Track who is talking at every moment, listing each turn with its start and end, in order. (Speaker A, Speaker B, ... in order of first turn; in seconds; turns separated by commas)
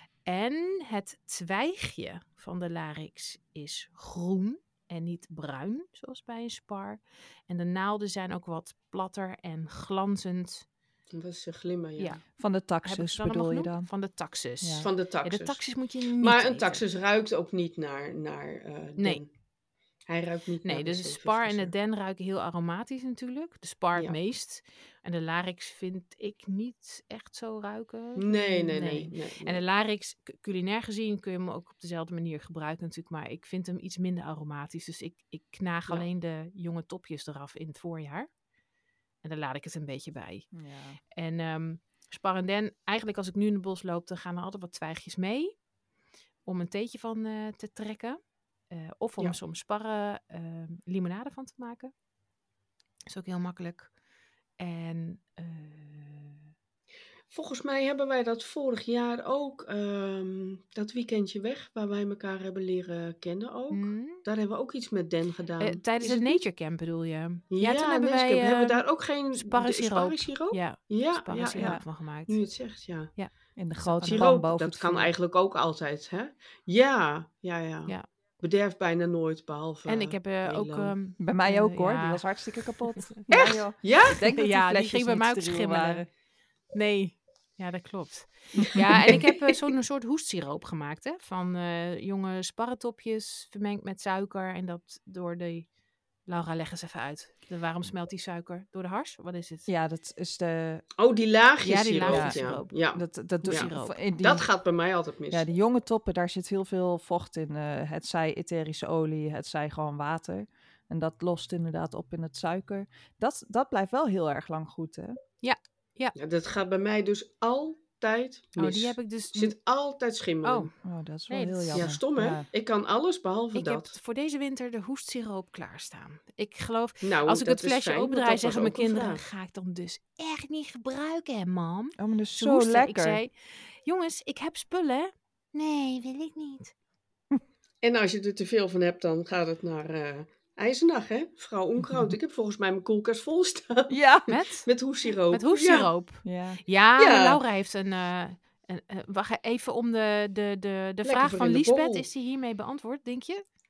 Speaker A: 0.2-10.7, Speaker B: 11.1-12.2, Speaker A: 12.0-12.2, Speaker C: 12.4-13.9, Speaker A: 12.8-16.8, Speaker C: 14.6-14.9, Speaker B: 14.8-15.7, Speaker B: 16.2-19.3, Speaker B: 20.1-21.7, Speaker A: 20.6-38.3, Speaker B: 28.1-29.6, Speaker A: 39.2-40.5, Speaker C: 40.5-41.0, Speaker A: 41.1-45.6, Speaker A: 46.4-48.2, Speaker A: 48.7-51.9, Speaker A: 53.1-53.9, Speaker A: 54.6-56.4, Speaker B: 57.3-66.4, Speaker A: 63.7-64.2, Speaker A: 65.6-68.8, Speaker B: 67.5-73.1, Speaker A: 69.3-72.4, Speaker C: 71.5-71.8, Speaker A: 73.2-74.2, Speaker C: 73.5-75.1, Speaker B: 74.0-80.9, Speaker A: 79.9-83.2, Speaker C: 81.2-86.0, Speaker B: 83.3-84.2, Speaker A: 84.1-86.0, Speaker A: 86.7-95.7, Speaker B: 88.8-89.5, Speaker A: 96.2-99.7, Speaker C: 99.7-100.8, Speaker B: 101.0-103.7, Speaker A: 101.6-102.8, Speaker C: 102.0-102.4, Speaker C: 102.9-104.5, Speaker A: 103.4-104.0, Speaker B: 104.2-105.5, Speaker C: 105.3-115.2, Speaker A: 115.4-116.1, Speaker B: 116.2-120.7, Speaker A: 118.6-119.5, Speaker A: 120.4-120.7, Speaker C: 120.8-122.5, Speaker A: 121.3-121.9, Speaker B: 121.7-124.0, Speaker A: 123.5-136.7, Speaker B: 127.0-129.2, Speaker C: 132.0-133.2, Speaker B: 137.8-144.0, Speaker C: 141.8-142.1, Speaker C: 143.9-144.3, Speaker A: 144.3-144.7, Speaker B: 144.6-145.9, Speaker A: 145.3-153.4, Speaker C: 146.2-146.6, Speaker B: 147.0-147.4, Speaker B: 151.0-152.1